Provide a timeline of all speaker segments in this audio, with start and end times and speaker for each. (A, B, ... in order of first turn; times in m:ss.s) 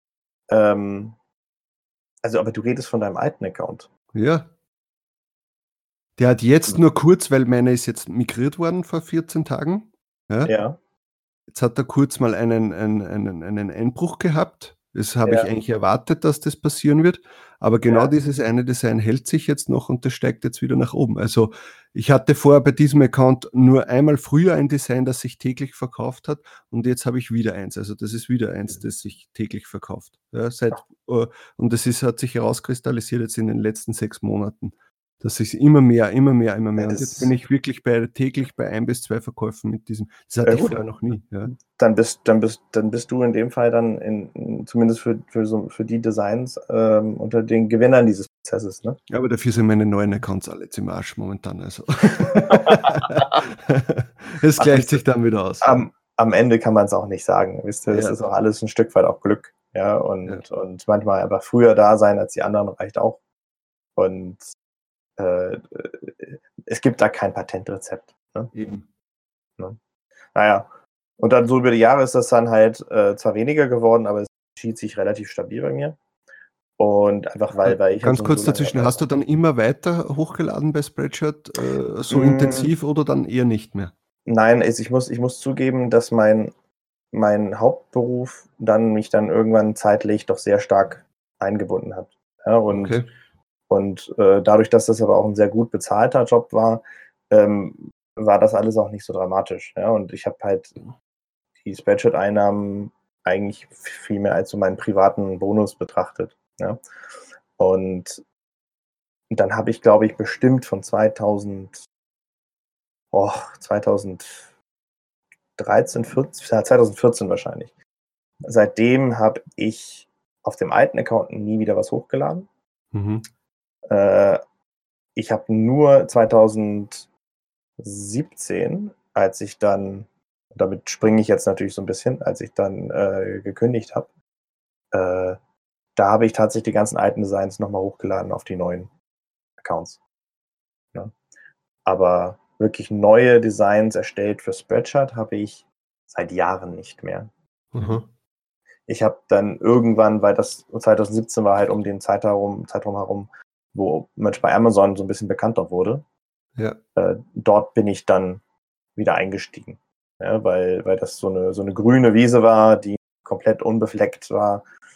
0:00.5-0:01.2 A
0:02.2-0:03.9 A
0:04.1-0:04.5 B
0:06.2-0:10.5 B
0:10.4-0:10.8 A
0:11.5-0:41.5 B
0:15.2-0:15.5 A
0:36.8-0:37.3 A
0:40.4-0:40.8 A
0:41.6-0:49.0 A
0:49.1-0:55.8 B
0:52.5-0:53.4 A
0:54.6-0:55.0 A
0:55.6-1:03.2 A
0:57.9-0:58.2 B
1:04.0-1:04.4 A
1:05.2-1:08.5 A
1:08.5-1:08.8 B
1:10.3-1:16.0 A
1:16.8-1:19.0 A
1:17.6-1:23.9 B
1:22.1-1:22.7 A
1:24.3-1:26.5 A
1:27.1-1:33.0 A
1:32.7-1:33.1 B
1:33.7-1:40.8 A
1:41.6-1:46.8 A
1:47.6-1:48.2 A
1:49.3-1:51.8 A
1:53.1-1:54.5 A
1:55.6-1:57.7 A
1:58.4-2:02.5 A
2:02.9-2:03.2 B
2:03.9-2:04.4 A
2:05.1-2:07.1 A
2:07.8-2:14.1 A
2:14.9-2:15.4 A
2:15.9-2:18.9 A
2:19.6-2:20.0 A
2:21.8-2:28.0 A
2:27.7-2:28.0 B
2:28.9-2:36.0 A
2:36.9-2:38.4 A
2:38.9-2:44.6 A